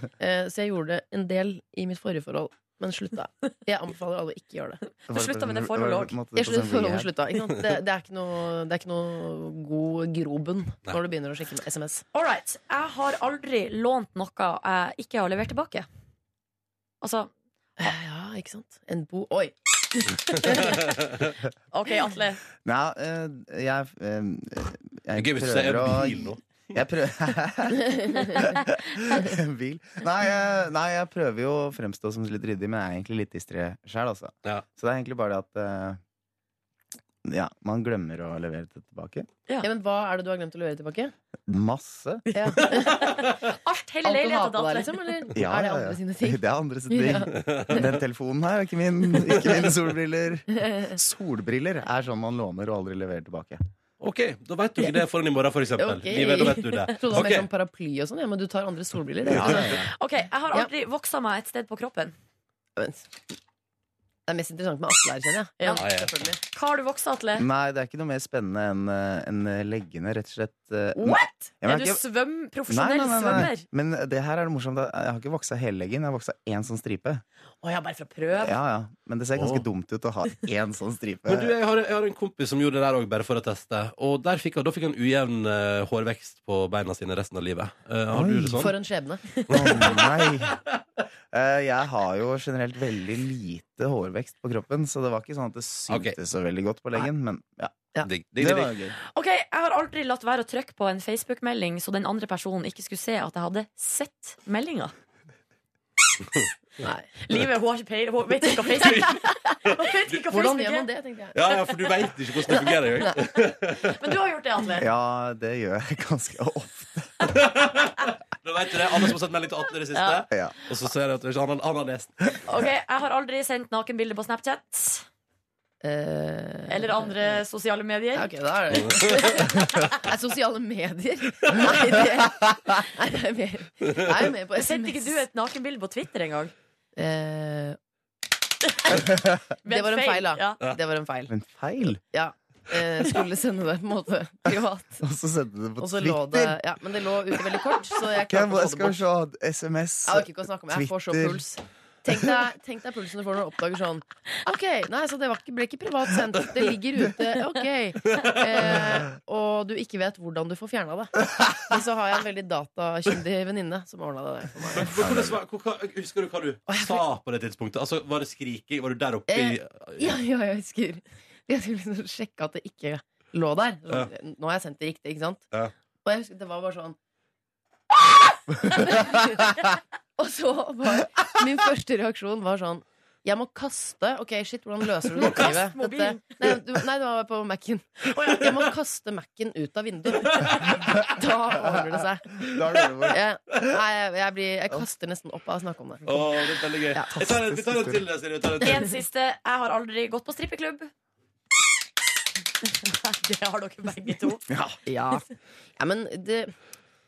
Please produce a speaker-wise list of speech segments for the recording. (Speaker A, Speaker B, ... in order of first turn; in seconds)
Speaker A: 0.2-4.8, 6.3-12.0, 17.8-21.0, 27.8-28.6, 39.6-41.1, 42.3-43.2, 44.0-48.0, 50.5-51.0, 55.8-59.9, 62.8-63.2, 64.3-66.4, 71.0-71.3, 88.6-90.0, 106.8-107.1, 108.5-109.1, 110.3-111.4, 112.5-113.2, 125.8-127.4, 128.1-135.2, 137.0-137.8, 139.6-141.3, 142.1-145.1, 145.8-149.0, 150.1-165.1, 166.7-167.1, 169.3-175.5, 176.1-177.0, 178.6-179.5, 180.2-192.5, 193.1-197.2, 204.9-205.2, 205.8-206.5
Speaker B: 5.1-7.1, 22.6-27.8, 28.7-36.0, 37.2-39.3, 41.5-42.3, 45.4-53.6, 59.3-59.9, 67.4-72.0, 72.7-77.2, 78.4-81.5, 88.1-88.7, 89.5-90.6, 91.3-99.0, 114.8-117.3, 120.3-120.6, 141.3-142.0, 145.0-146.6, 148.3-151.4, 165.0-165.4, 192.4-193.2, 197.2-198.0, 204.5-204.8
Speaker C: 5.1-6.2, 12.1-15.9, 17.0-17.3, 21.7-22.4, 42.3-45.3, 59.9-62.1, 65.6-65.8, 66.5-67.5, 71.1-73.7, 77.6-78.5, 99.1-104.9, 107.2-110.9, 113.8-114.9, 120.0-120.2, 122.5-125.1, 126.7-128.3, 134.6-136.5, 139.7-140.6, 185.2-186.2, 198.6-200.9, 202.8-204.4
Speaker D: 25.1-26.4, 47.5-47.8, 54.0-57.5, 65.8-66.1, 79.4-79.7, 81.3-88.7, 95.9-96.2, 98.0-98.8, 111.3-113.9, 117.3-122.3, 128.7-129.0, 158.1-158.8, 164.8-170.1, 196.1-198.9